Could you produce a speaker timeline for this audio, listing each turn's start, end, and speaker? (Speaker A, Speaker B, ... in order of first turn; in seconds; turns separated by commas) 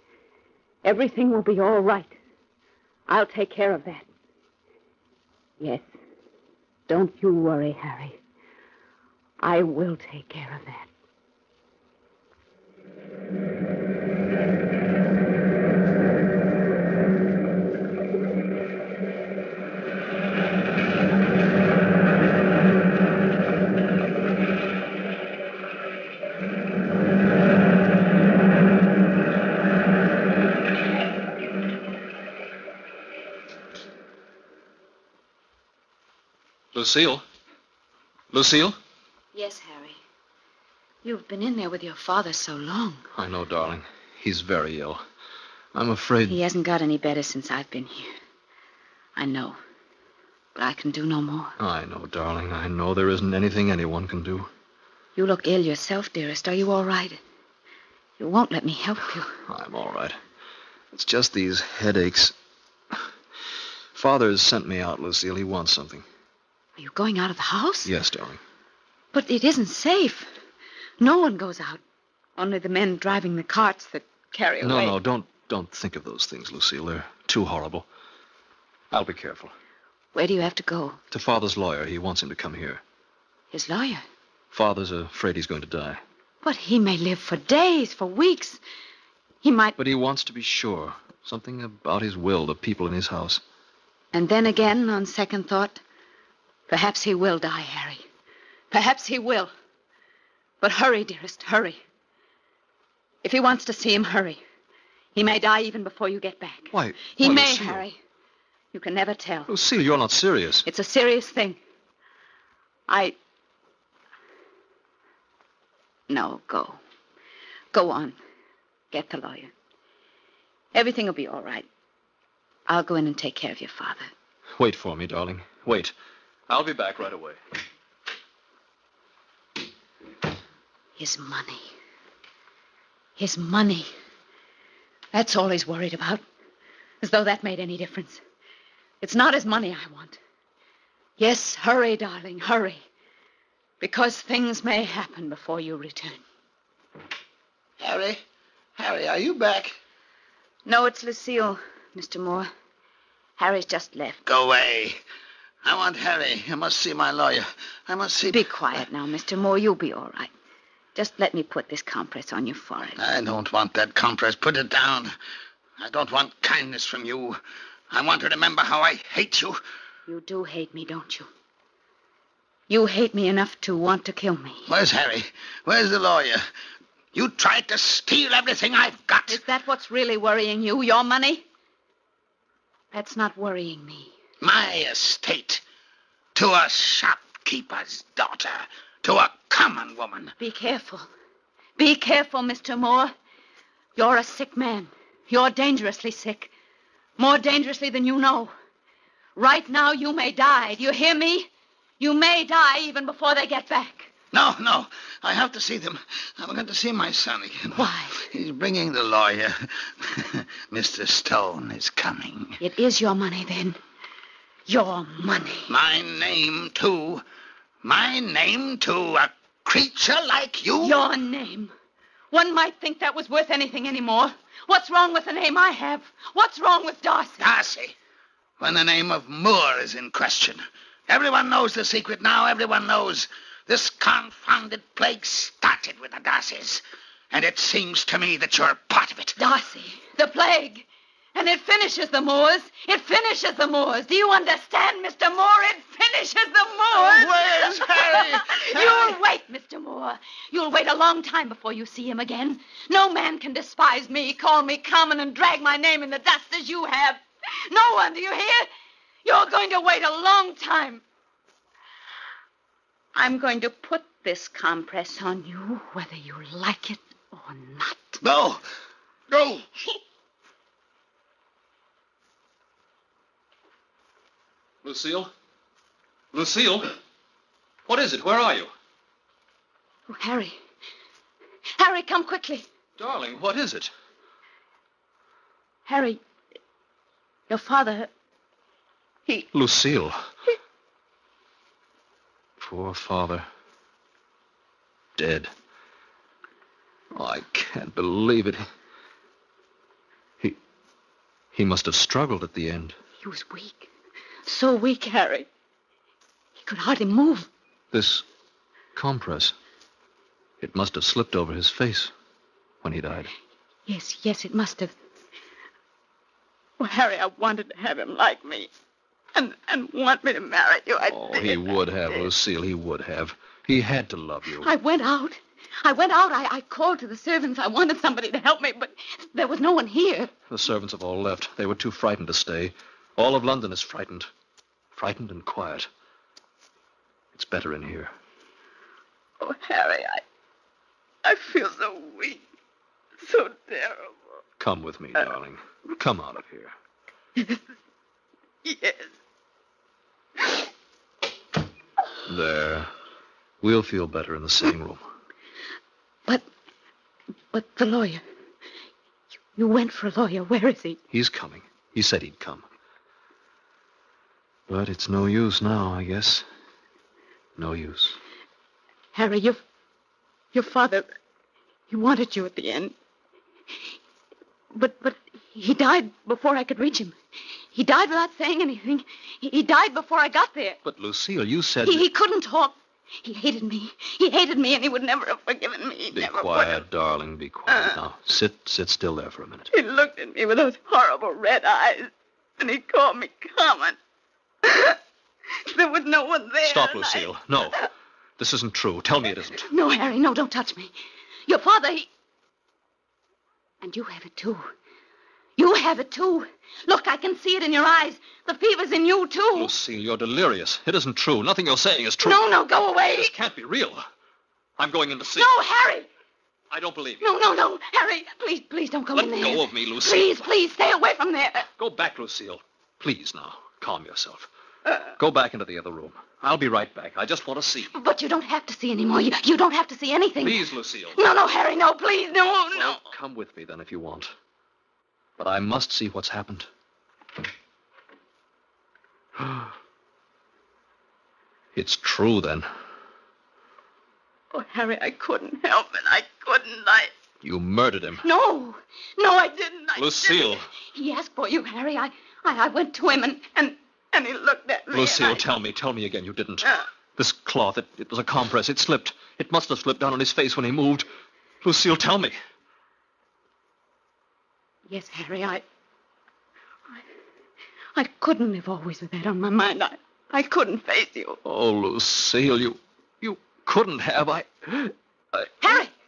Speaker A: 0.8-2.1, Speaker A: 3.1-4.0, Speaker A: 5.6-5.8, Speaker A: 6.9-8.2, Speaker A: 9.4-10.9, Speaker B: 36.7-37.2, Speaker B: 38.3-38.8, Speaker A: 39.3-40.0, Speaker A: 41.0-43.1, Speaker B: 43.1-45.0, Speaker B: 45.7-46.4, Speaker A: 46.2-48.1, Speaker A: 49.1-49.6, Speaker A: 50.5-51.5, Speaker B: 51.6-54.5, Speaker A: 55.1-57.2, Speaker A: 58.2-59.4, Speaker B: 59.4-60.2, Speaker B: 60.9-62.3, Speaker B: 63.9-66.0, Speaker A: 66.8-67.9, Speaker B: 67.8-68.4, Speaker A: 69.1-70.3, Speaker A: 71.0-71.8, Speaker A: 72.4-75.0, Speaker B: 74.6-77.9, Speaker B: 78.9-79.5, Speaker A: 80.1-81.0, Speaker B: 81.1-82.8, Speaker A: 83.5-84.0, Speaker B: 84.5-86.0, Speaker A: 86.4-88.6, Speaker A: 89.4-89.8, Speaker B: 89.8-93.4, Speaker A: 94.1-95.8, Speaker A: 96.7-98.0, Speaker A: 98.7-99.5, Speaker A: 100.6-101.8, Speaker A: 103.2-104.4, Speaker A: 105.1-108.0, Speaker B: 106.7-107.8, Speaker A: 108.7-109.5, Speaker B: 109.5-110.7, Speaker A: 110.6-111.6, Speaker A: 112.9-113.2, Speaker A: 116.1-116.8, Speaker A: 117.7-118.2, Speaker A: 118.9-119.5, Speaker A: 120.7-121.7, Speaker A: 122.7-124.1, Speaker B: 124.5-125.9, Speaker B: 126.5-127.4, Speaker A: 131.0-131.7, Speaker A: 133.2-133.9, Speaker A: 135.1-136.2, Speaker A: 137.0-138.2, Speaker A: 139.0-140.2, Speaker A: 141.2-142.8, Speaker A: 143.8-146.2, Speaker C: 147.8-148.2, Speaker C: 148.8-149.8, Speaker A: 150.7-152.5, Speaker A: 153.4-154.2, Speaker C: 154.2-155.0, Speaker C: 155.6-158.4, Speaker A: 158.3-160.3, Speaker A: 160.9-163.0, Speaker C: 163.0-165.2, Speaker C: 165.8-167.4, Speaker C: 167.9-169.6, Speaker A: 170.1-171.3, Speaker A: 172.7-174.7, Speaker C: 174.7-176.4, Speaker C: 177.1-179.4, Speaker A: 179.3-181.4, Speaker A: 182.9-184.1, Speaker C: 184.4-185.6, Speaker C: 186.3-190.3, Speaker A: 190.4-191.1, Speaker A: 191.8-193.1, Speaker A: 193.9-196.5, Speaker A: 197.2-198.5, Speaker A: 199.3-204.1, Speaker C: 204.3-212.6, Speaker A: 207.7-208.2, Speaker A: 212.6-213.8, Speaker A: 214.7-215.7, Speaker C: 215.7-217.2, Speaker C: 217.8-221.0, Speaker A: 220.8-221.7, Speaker A: 222.3-227.5, Speaker C: 227.4-228.0, Speaker C: 228.6-239.4, Speaker A: 239.4-258.7, Speaker C: 246.9-249.2, Speaker A: 259.2-261.0, Speaker A: 263.1-268.2, Speaker C: 268.2-268.6, Speaker C: 269.3-269.7, Speaker B: 274.8-275.3, Speaker B: 276.3-276.9, Speaker B: 277.9-278.7, Speaker A: 280.1-280.6, Speaker A: 281.8-282.6, Speaker B: 283.0-283.9, Speaker A: 285.9-286.2, Speaker A: 287.5-288.1, Speaker B: 289.5-290.2, Speaker B: 292.6-293.5, Speaker B: 295.1-295.5, Speaker B: 297.1-298.6, Speaker B: 301.5-302.9, Speaker A: 303.2-303.9, Speaker A: 304.4-305.5, Speaker A: 306.6-307.5, Speaker B: 307.9-308.2, Speaker B: 308.9-309.5, Speaker B: 310.6-312.1, Speaker B: 312.8-313.3, Speaker A: 313.9-314.9, Speaker A: 316.8-318.7, Speaker A: 319.3-321.6, Speaker B: 321.1-324.7, Speaker A: 324.6-330.3, Speaker B: 330.5-334.3, Speaker B: 334.9-335.9, Speaker B: 337.3-338.1, Speaker A: 339.4-340.2, Speaker A: 341.2-342.4, Speaker A: 343.2-344.2, Speaker B: 344.6-346.7, Speaker A: 348.6-349.1, Speaker B: 352.3-352.9, Speaker B: 353.6-355.1, Speaker A: 357.5-358.2, Speaker A: 359.6-361.0, Speaker B: 361.1-362.7, Speaker B: 364.7-366.5, Speaker B: 367.6-368.2, Speaker A: 369.1-369.6, Speaker A: 370.5-371.1, Speaker A: 371.9-372.9, Speaker A: 374.7-377.1, Speaker A: 377.7-380.8, Speaker B: 380.8-382.1, Speaker A: 381.8-386.8, Speaker B: 386.1-389.7, Speaker A: 387.7-388.0, Speaker A: 389.7-394.0, Speaker A: 394.6-395.0, Speaker A: 395.5-397.8, Speaker B: 396.6-397.8, Speaker B: 398.4-399.7, Speaker A: 399.6-400.9, Speaker A: 401.5-402.1, Speaker A: 403.8-404.7, Speaker A: 405.6-409.7, Speaker B: 409.5-412.4, Speaker A: 412.2-413.3, Speaker B: 413.1-414.1, Speaker B: 414.8-415.5, Speaker A: 415.3-416.1, Speaker B: 416.7-417.3, Speaker A: 417.2-421.6, Speaker B: 419.1-420.5, Speaker B: 421.6-424.5, Speaker B: 425.2-427.9, Speaker A: 427.9-433.0, Speaker B: 430.4-431.2, Speaker B: 432.7-434.3, Speaker B: 435.4-436.7, Speaker B: 441.7-442.7, Speaker A: 444.5-447.1, Speaker B: 447.4-448.2, Speaker A: 448.2-455.4, Speaker B: 449.9-450.7, Speaker B: 454.9-461.1, Speaker B: 461.6-462.4, Speaker A: 464.9-465.6, Speaker A: 467.9-471.4, Speaker B: 471.4-475.8, Speaker A: 475.6-475.9